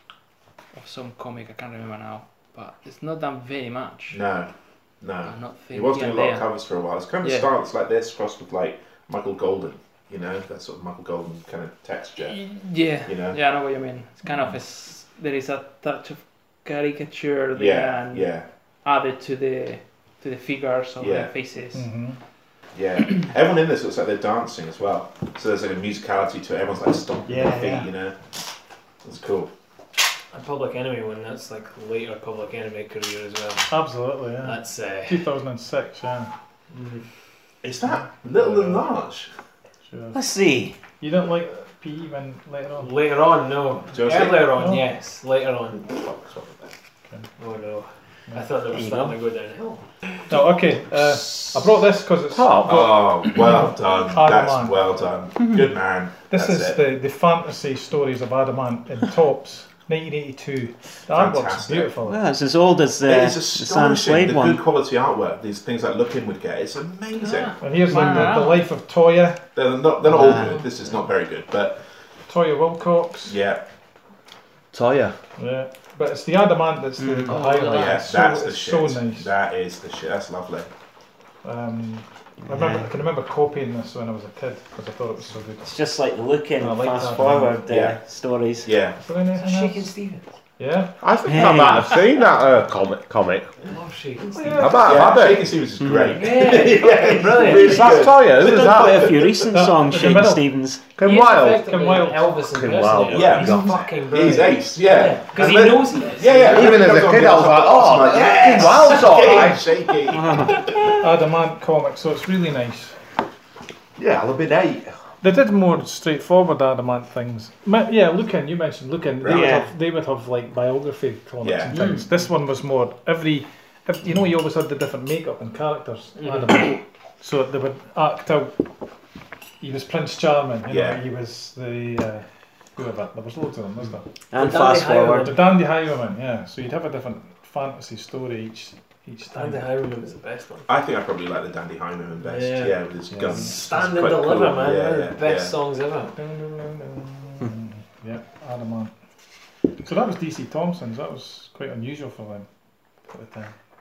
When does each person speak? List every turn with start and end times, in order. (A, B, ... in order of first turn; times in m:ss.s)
0:00.7-0:04.2 A
0:04.1-0:04.5 B
0:05.0-0:12.4 B
0:05.2-0:06.5 A
0:07.2-0:07.5 A
0:12.2-0:18.3 A
0:13.0-0:13.4 B
0:17.5-0:18.5 B
0:18.8-0:21.9 A
0:21.0-0:21.3 B
0:21.7-0:22.2 C
0:22.7-0:28.2 B
0:27.3-0:27.9 C
0:29.0-0:29.5 B
0:30.3-0:33.7 D
0:33.7-0:36.3 C
0:34.4-0:35.2 D
0:36.7-0:37.0 D
0:37.6-0:39.3 B
0:37.9-0:38.8 C
0:39.9-0:40.2 C
0:40.1-0:40.8 E
0:41.0-0:42.9 C
0:42.8-0:45.8 D
0:43.9-0:44.5 B
0:44.6-0:44.8 C
0:45.9-0:46.7 B
0:47.4-0:49.8 D
0:48.7-0:49.1 E
0:50.3-0:54.8 C
0:52.3-0:52.9 F
0:52.6-0:56.8 B
0:56.3-1:02.2 C
1:01.1-1:01.9 B
1:02.0-1:04.6 E
1:03.0-1:08.2 B
1:07.2-1:08.7 A
1:07.6-1:09.4 C
1:09.5-1:11.8 B
1:10.0-1:10.5 E
1:10.4-1:10.6 A
1:12.3-1:13.4 C
1:13.2-1:13.6 B
1:14.7-1:15.2 F
1:15.4-1:19.3 C
1:17.0-1:17.4 E
1:17.2-1:18.0 A
1:17.7-1:20.7 B
1:21.4-1:25.8 C
1:22.5-1:22.8 E
1:25.6-1:28.7 E
1:26.6-1:27.6 C
1:27.7-1:28.0 B
1:28.6-1:29.0 B
1:29.0-1:29.9 C
1:29.4-1:30.3 D
1:30.6-1:31.7 C
1:31.0-1:33.5 F
1:31.2-1:32.0 E
1:33.7-1:35.1 D
1:34.5-1:35.5 F
1:34.8-1:39.4 B
1:35.8-1:36.2 E
1:36.1-1:38.1 D
1:37.4-1:39.2 F
1:38.4-1:40.8 E
1:39.4-1:40.4 C
1:41.0-1:41.7 F
1:41.0-1:46.9 D
1:41.6-1:42.3 C
1:42.5-1:43.8 F
1:43.1-1:51.0 B
1:46.4-1:49.7 F
1:50.1-1:50.8 E
1:51.0-1:53.0 C
1:54.0-1:55.0 F
1:55.2-2:08.6 C
1:59.2-1:59.6 B
1:59.3-1:59.6 E
2:01.4-2:01.8 B
2:01.7-2:02.0 D
2:06.2-2:06.6 D
2:09.6-2:14.0 C
2:10.7-2:11.0 B
2:14.3-2:15.3 E
2:14.3-2:15.3 D
2:15.2-2:19.6 C
2:19.3-2:20.7 D
2:20.7-2:25.5 B
2:22.2-2:26.1 D
2:23.1-2:23.5 C
2:26.2-2:28.9 C
2:29.8-2:32.5 C
2:33.1-2:33.5 C